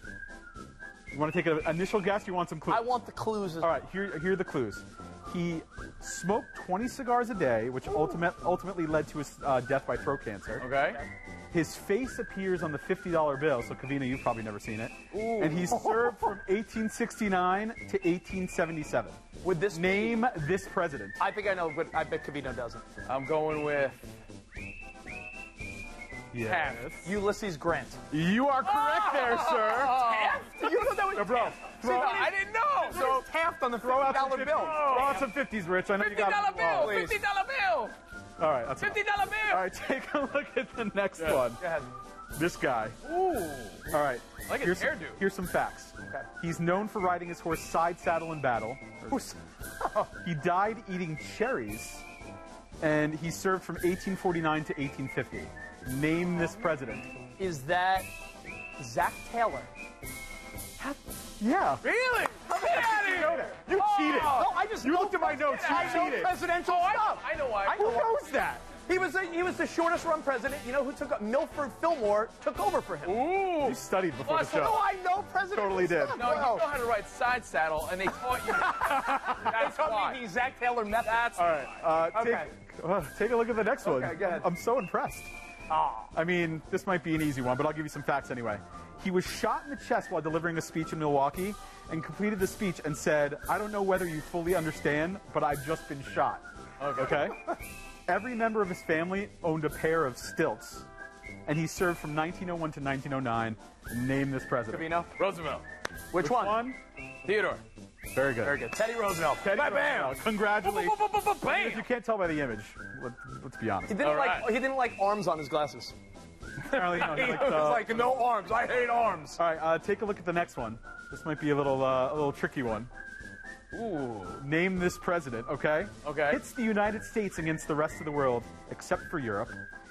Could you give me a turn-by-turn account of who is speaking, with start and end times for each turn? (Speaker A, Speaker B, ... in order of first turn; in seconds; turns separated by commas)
Speaker A: 1.1-2.9, Speaker B: 2.7-3.8, Speaker A: 3.6-10.7, Speaker C: 10.6-11.0, Speaker A: 11.5-19.2, Speaker B: 15.2-16.3, Speaker C: 15.2-15.7, Speaker B: 19.4-20.3, Speaker A: 19.7-21.2, Speaker B: 21.2-22.9, Speaker C: 23.1-24.1, Speaker A: 26.3-27.1, Speaker C: 26.4-27.0, Speaker B: 27.0-28.0, Speaker A: 28.1-30.0, Speaker C: 28.6-30.4, Speaker B: 29.7-35.2, Speaker A: 30.9-32.1, Speaker C: 31.8-33.2, Speaker A: 33.8-37.0, Speaker C: 34.5-35.3, Speaker C: 36.0-38.0, Speaker B: 36.7-37.2, Speaker A: 38.4-41.6, Speaker C: 38.8-39.7, Speaker C: 41.2-41.5, Speaker B: 41.5-41.9, Speaker A: 42.4-43.0, Speaker C: 43.0-43.9, Speaker A: 43.9-49.4, Speaker C: 44.5-45.2, Speaker B: 49.8-50.1, Speaker A: 50.0-52.0, Speaker A: 52.8-57.1, Speaker B: 57.4-58.1, Speaker B: 58.8-59.7, Speaker A: 61.4-61.9, Speaker C: 61.8-64.5, Speaker A: 62.5-66.3, Speaker B: 64.1-73.2, Speaker C: 65.4-67.8, Speaker A: 67.7-68.6, Speaker C: 73.0-74.8, Speaker A: 73.6-74.9, Speaker B: 74.5-76.7, Speaker A: 75.5-76.4, Speaker C: 76.2-80.2, Speaker B: 78.8-81.4, Speaker A: 79.1-79.4, Speaker C: 81.0-81.8, Speaker A: 81.4-85.3, Speaker B: 82.1-82.5, Speaker B: 83.8-84.5, Speaker B: 85.7-86.1, Speaker A: 86.1-100.9, Speaker C: 96.8-97.2, Speaker A: 101.5-104.9, Speaker B: 104.7-105.1, Speaker C: 105.2-105.7, Speaker B: 106.1-106.7, Speaker A: 106.2-106.8, Speaker C: 107.2-107.6, Speaker A: 108.1-108.6, Speaker B: 108.4-110.2, Speaker A: 109.4-114.1, Speaker C: 109.8-111.9, Speaker B: 113.9-116.0, Speaker C: 114.0-114.5, Speaker C: 116.7-118.0, Speaker A: 116.7-118.0, Speaker B: 117.0-119.4, Speaker A: 119.4-122.9, Speaker C: 123.7-124.4, Speaker A: 124.4-129.6, Speaker C: 126.0-126.4